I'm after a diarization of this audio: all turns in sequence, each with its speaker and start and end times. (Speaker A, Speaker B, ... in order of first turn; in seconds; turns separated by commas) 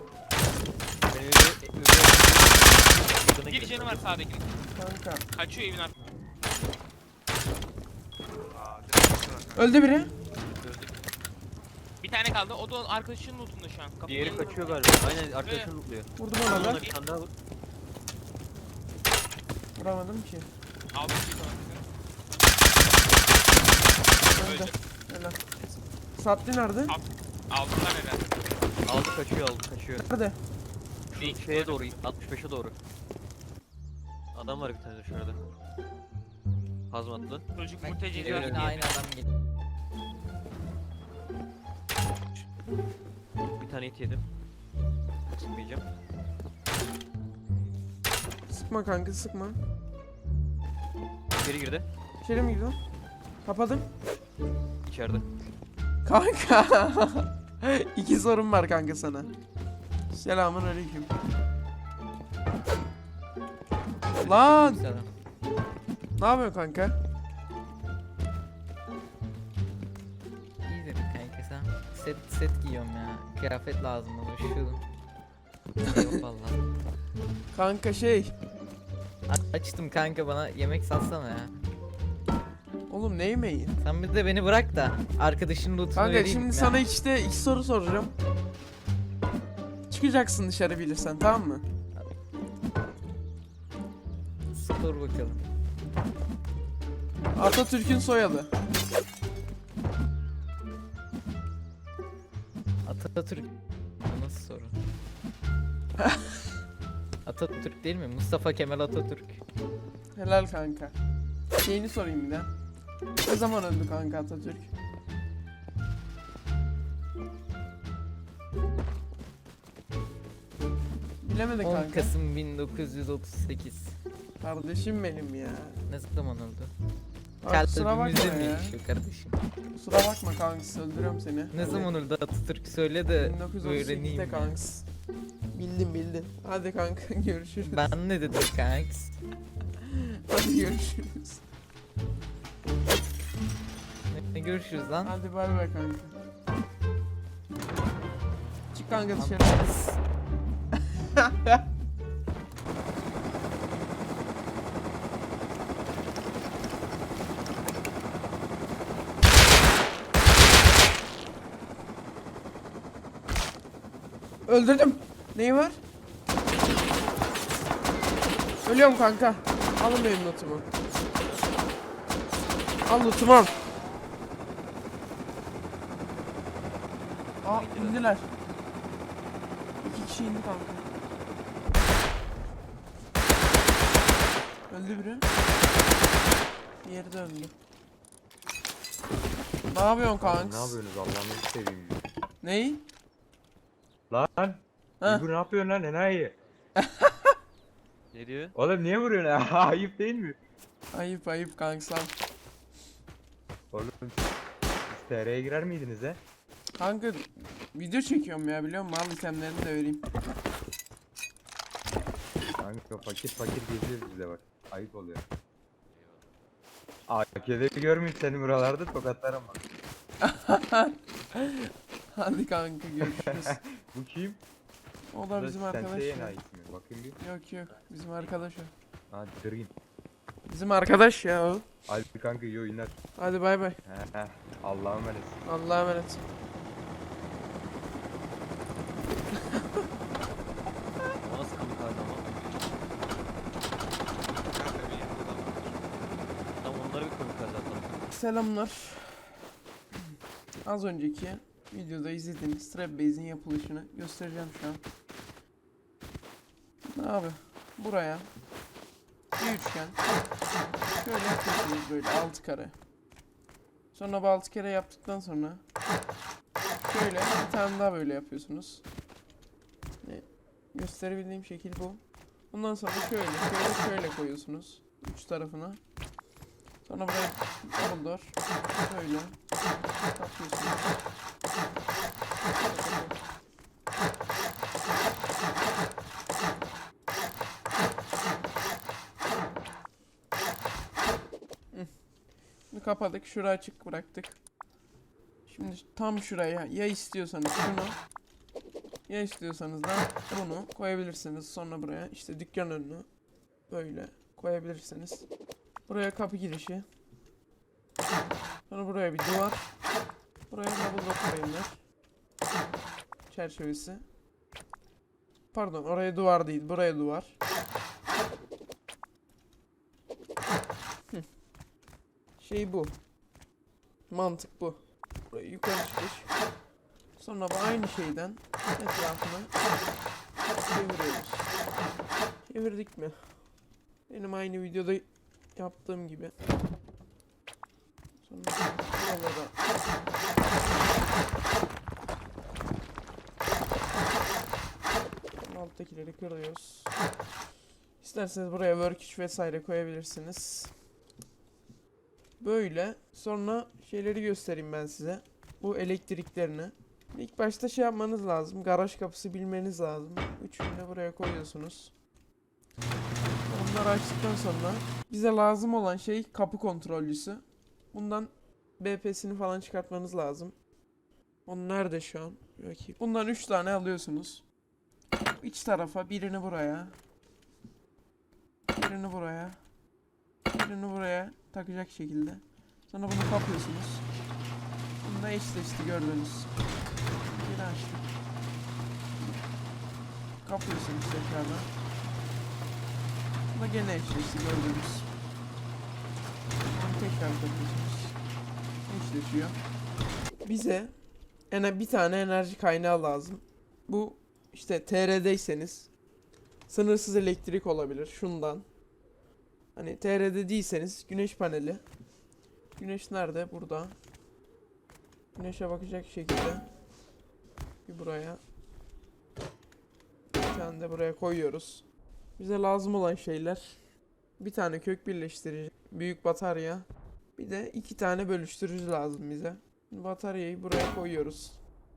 Speaker A: 1.1-4.0, Speaker B: 3.5-4.5, Speaker C: 4.7-5.2, Speaker B: 5.3-5.9, Speaker D: 8.5-9.8, Speaker C: 9.6-10.1, Speaker A: 10.6-10.9, Speaker B: 12.0-15.7, Speaker A: 14.0-17.3, Speaker C: 16.1-16.8, Speaker B: 16.5-16.9, Speaker C: 19.7-20.5, Speaker B: 20.9-21.9, Speaker C: 24.2-25.4, Speaker B: 24.3-24.8, Speaker C: 26.1-26.9, Speaker B: 26.9-28.4, Speaker A: 28.8-30.1, Speaker C: 30.0-30.4, Speaker A: 31.1-32.7, Speaker B: 31.1-32.1, Speaker A: 34.3-35.4, Speaker A: 36.9-37.4, Speaker B: 37.5-38.9, Speaker E: 37.8-39.2, Speaker A: 38.2-38.7, Speaker A: 43.6-44.2, Speaker A: 45.3-45.9, Speaker C: 48.5-49.6, Speaker A: 51.3-51.9, Speaker C: 52.2-52.8, Speaker C: 53.4-53.9, Speaker A: 54.8-55.2, Speaker C: 56.0-59.3, Speaker C: 60.1-61.1, Speaker E: 64.2-65.1, Speaker C: 64.2-64.8, Speaker C: 66.2-67.0, Speaker E: 70.6-74.8, Speaker E: 75.8-76.6, Speaker C: 77.5-78.3, Speaker E: 79.3-81.6, Speaker C: 82.9-83.8, Speaker E: 83.8-86.8, Speaker C: 85.9-88.1, Speaker C: 89.9-91.6, Speaker E: 94.5-95.5, Speaker C: 97.3-98.5, Speaker E: 102.8-103.5, Speaker E: 104.0-104.8, Speaker E: 107.2-109.4, Speaker C: 110.1-110.9, Speaker C: 111.6-112.5, Speaker C: 113.2-114.7, Speaker C: 121.2-122.1, Speaker E: 121.6-123.9, Speaker C: 124.4-125.8, Speaker E: 125.9-126.7, Speaker C: 127.4-128.8, Speaker E: 127.5-129.4, Speaker C: 129.7-131.9, Speaker E: 131.5-134.6, Speaker C: 133.1-134.8, Speaker C: 135.5-137.8, Speaker E: 137.6-139.1, Speaker C: 139.8-141.4, Speaker E: 144.1-145.1, Speaker C: 145.0-146.1, Speaker C: 148.7-149.9, Speaker E: 149.1-149.9, Speaker C: 151.1-151.6, Speaker C: 164.4-165.8, Speaker C: 168.6-170.7, Speaker C: 172.8-173.6, Speaker C: 177.4-178.3, Speaker A: 177.5-178.1, Speaker C: 179.8-180.9, Speaker C: 184.7-185.2, Speaker C: 186.8-187.5, Speaker C: 189.7-190.8, Speaker F: 190.2-192.0, Speaker C: 192.4-192.8, Speaker F: 194.1-196.3, Speaker C: 195.0-195.2, Speaker C: 196.8-197.3, Speaker A: 198.1-198.5, Speaker F: 198.5-200.4, Speaker C: 200.9-202.1, Speaker F: 203.7-204.2, Speaker F: 204.9-206.2, Speaker C: 206.8-210.0, Speaker F: 212.6-215.2, Speaker F: 217.1-219.6, Speaker C: 220.2-223.6, Speaker F: 223.0-224.4, Speaker C: 225.1-226.4, Speaker F: 225.3-227.2, Speaker C: 227.2-228.7, Speaker F: 229.1-229.7, Speaker C: 230.4-231.7, Speaker F: 231.9-232.9, Speaker C: 233.2-233.8, Speaker F: 233.8-235.4, Speaker C: 235.4-236.2, Speaker A: 241.2-242.2, Speaker D: 244.4-245.8, Speaker A: 246.6-247.9, Speaker C: 248.1-249.3, Speaker C: 250.6-254.8, Speaker C: 256.9-258.3, Speaker C: 259.4-260.0, Speaker C: 260.9-262.7, Speaker C: 263.9-265.6, Speaker C: 266.8-268.8, Speaker C: 270.0-275.8, Speaker C: 276.8-279.3, Speaker C: 280.1-280.9, Speaker C: 282.6-283.1, Speaker C: 292.7-294.4, Speaker C: 295.5-297.9, Speaker C: 299.1-303.1, Speaker C: 303.7-305.2, Speaker C: 305.9-306.8, Speaker C: 308.7-309.7, Speaker C: 310.5-311.8, Speaker C: 313.3-314.0, Speaker C: 315.5-317.3, Speaker C: 322.4-322.9, Speaker C: 324.1-324.8, Speaker C: 325.3-326.3, Speaker C: 327.2-329.5, Speaker C: 330.6-331.5, Speaker C: 332.4-333.3, Speaker C: 334.1-336.3, Speaker C: 338.2-339.5, Speaker C: 345.4-346.9, Speaker C: 348.0-350.7, Speaker C: 352.4-361.9, Speaker C: 363.5-370.5, Speaker C: 371.4-374.4, Speaker C: 375.4-376.9, Speaker C: 378.7-379.6, Speaker C: 380.5-384.0, Speaker C: 385.0-386.5, Speaker C: 387.3-388.1, Speaker C: 390.4-391.7, Speaker C: 393.5-395.1, Speaker C: 396.6-398.1, Speaker C: 398.9-399.6, Speaker C: 400.4-400.9, Speaker C: 401.5-405.9, Speaker C: 406.7-408.6, Speaker C: 409.7-411.8, Speaker C: 412.8-413.9, Speaker C: 415.3-416.7, Speaker C: 417.9-418.4, Speaker C: 420.3-421.8, Speaker C: 422.4-423.8, Speaker C: 424.4-426.8, Speaker C: 427.4-431.6